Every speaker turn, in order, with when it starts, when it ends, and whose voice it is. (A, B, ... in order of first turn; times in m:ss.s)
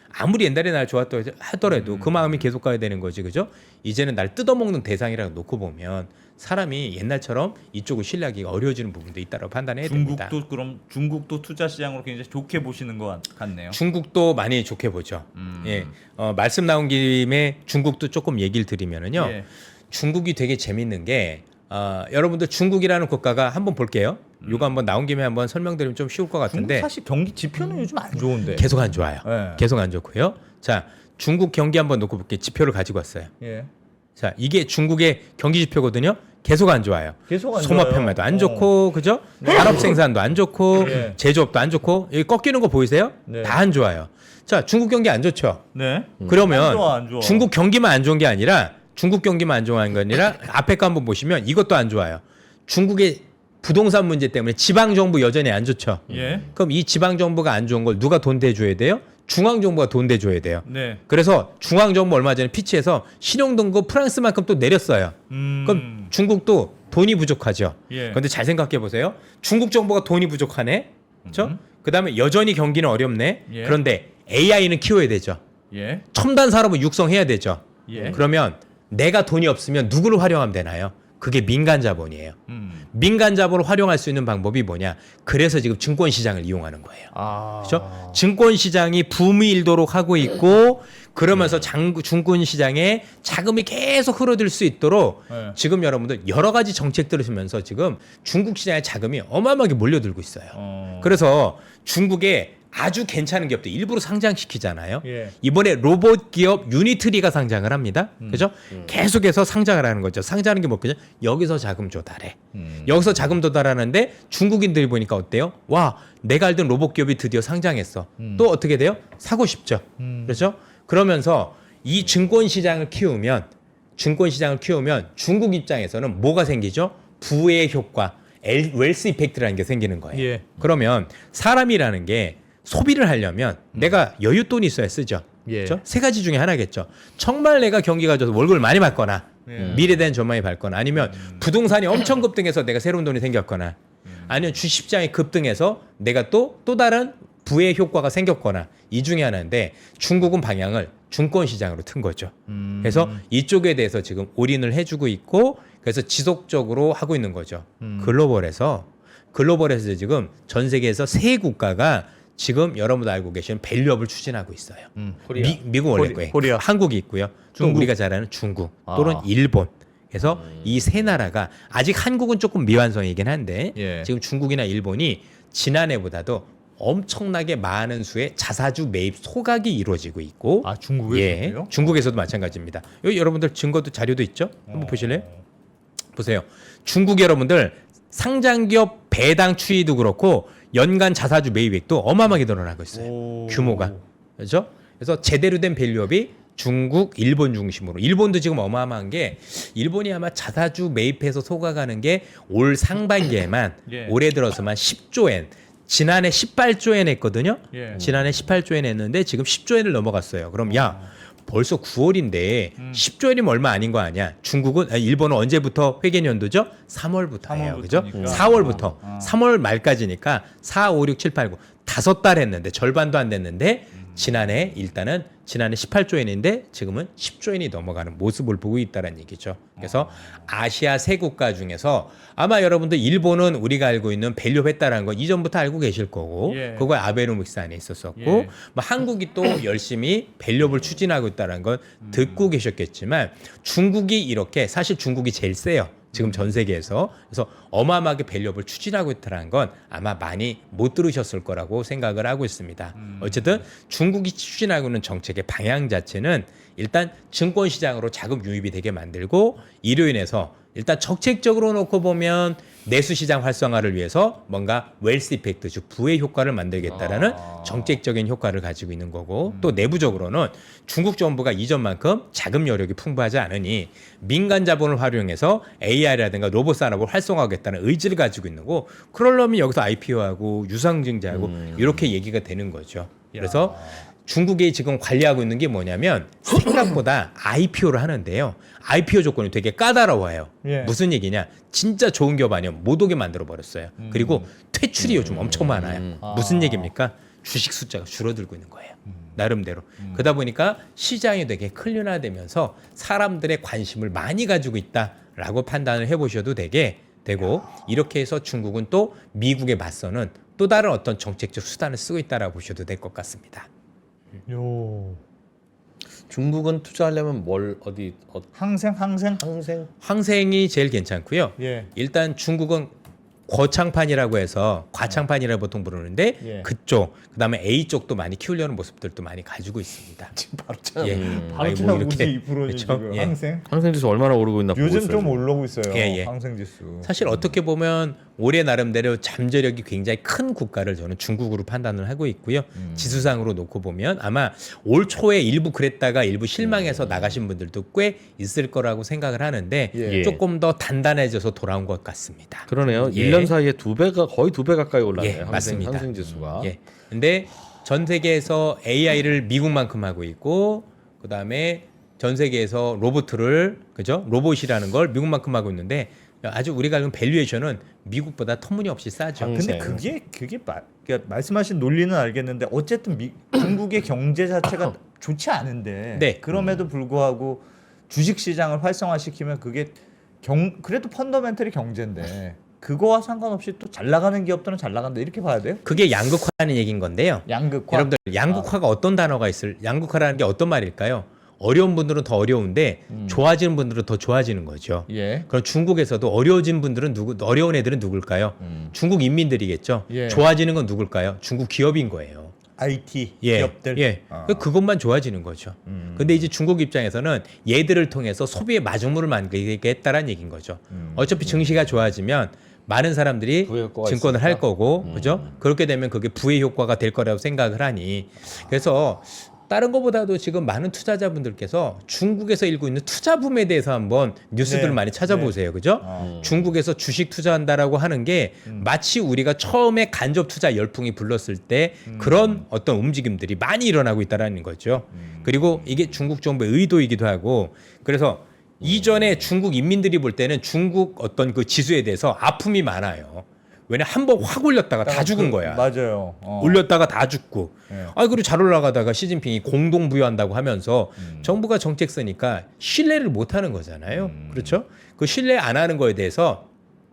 0:00.1-0:10.3 A
0:01.8-0:02.1 B
0:09.8-0:13.8 B
0:13.7-0:19.4 A
0:15.4-0:15.9 B
0:19.1-0:19.4 B
0:19.9-0:26.9 A
0:24.4-0:24.7 B
0:26.5-0:29.6 B
0:28.4-0:33.3 A
0:33.4-0:33.7 B
0:34.2-0:45.7 A
0:37.3-0:38.7 B
0:39.4-0:40.0 B
0:40.8-0:41.2 B
0:43.3-0:43.6 B
0:45.7-0:47.5 B
0:46.2-0:46.6 C
0:46.2-1:15.4 A
0:56.1-0:56.5 C
0:56.1-0:56.5 B
1:00.6-1:01.0 B
1:05.3-1:06.1 B
1:07.9-1:08.2 B
1:11.2-1:11.6 B
1:13.5-1:13.8 B
1:15.7-1:16.0 B
1:16.1-1:22.4 A
1:17.9-1:18.2 B
1:22.5-1:22.9 B
1:22.9-1:27.1 A
1:27.1-1:28.2 B
1:27.6-3:05.2 A
1:35.3-1:35.6 B
1:40.5-1:41.2 B
1:45.0-1:45.3 B
1:48.2-1:48.5 B
1:52.5-1:53.1 B
1:58.2-1:58.5 B
2:00.0-2:00.5 B
2:10.1-2:10.5 B
2:15.4-2:15.8 B
2:19.4-2:19.9 B
2:19.6-2:20.1 C
2:21.2-2:21.4 B
2:32.5-2:33.2 B
2:37.8-2:38.2 B
2:45.0-2:45.2 B
2:45.2-2:45.6 C
2:45.9-2:46.6 B
2:47.6-2:47.9 B
2:48.9-2:49.3 B
2:50.3-2:51.0 C
2:53.7-2:54.1 B
3:00.6-3:01.8 B
3:04.7-3:05.4 B
3:06.2-5:13.7 A
3:12.9-3:14.0 B
3:23.9-3:24.2 B
3:27.7-3:28.0 B
3:27.9-3:28.5 C
3:30.6-3:31.1 B
3:32.8-3:33.0 B
3:37.4-3:39.4 B
3:38.1-3:38.9 C
3:44.0-3:44.6 B
3:49.8-3:50.4 B
3:56.4-3:56.9 B
3:58.2-3:58.5 B
4:02.0-4:02.4 B
4:06.1-4:06.6 B
4:13.0-4:13.6 B
4:26.9-4:28.0 B
4:29.4-4:29.9 B
4:41.3-4:42.1 C
4:43.3-4:44.0 B
4:50.6-4:51.0 B
4:54.0-4:54.5 B
4:55.0-4:56.2 C
4:56.2-4:56.9 B
5:00.0-5:00.3 B
5:14.5-5:15.2 B
5:16.3-5:18.5 C
5:18.5-5:19.4 B
5:19.3-5:19.9 C
5:20.0-5:22.9 A
5:21.6-5:21.9 B
5:23.5-5:30.4 A
5:26.4-5:26.7 B
5:30.4-5:32.0 C
5:31.0-5:33.3 A
5:31.0-5:33.7 B
5:33.7-5:35.4 C
5:34.7-5:37.2 B
5:35.9-5:36.3 A
5:37.0-5:53.5 A
5:42.7-5:43.3 B
5:46.6-5:47.4 C
5:49.9-5:50.3 B
5:50.0-5:50.4 C
5:52.7-5:56.7 C
5:55.2-5:56.1 A
5:56.2-5:56.7 B
5:56.6-6:09.7 A
6:09.4-6:10.1 C
6:09.5-6:25.9 B
6:16.1-6:16.4 A
6:16.5-6:16.8 C
6:25.8-6:42.5 A
6:27.5-6:28.7 B
6:33.1-6:33.4 B
6:35.1-6:35.5 B
6:38.6-6:38.9 B
6:40.1-6:40.5 B
6:42.8-6:44.6 B
6:43.4-7:25.8 A
6:45.9-6:46.5 B
6:50.9-6:51.4 B
6:53.6-6:55.6 C
7:04.6-7:06.3 B
7:06.2-7:06.7 C
7:12.1-7:12.6 B
7:15.1-7:15.7 B
7:18.8-7:19.5 C
7:25.0-7:25.6 C
7:25.6-7:26.8 B
7:26.6-7:36.7 A
7:27.9-7:28.1 B
7:31.2-7:31.6 B
7:34.1-7:34.8 B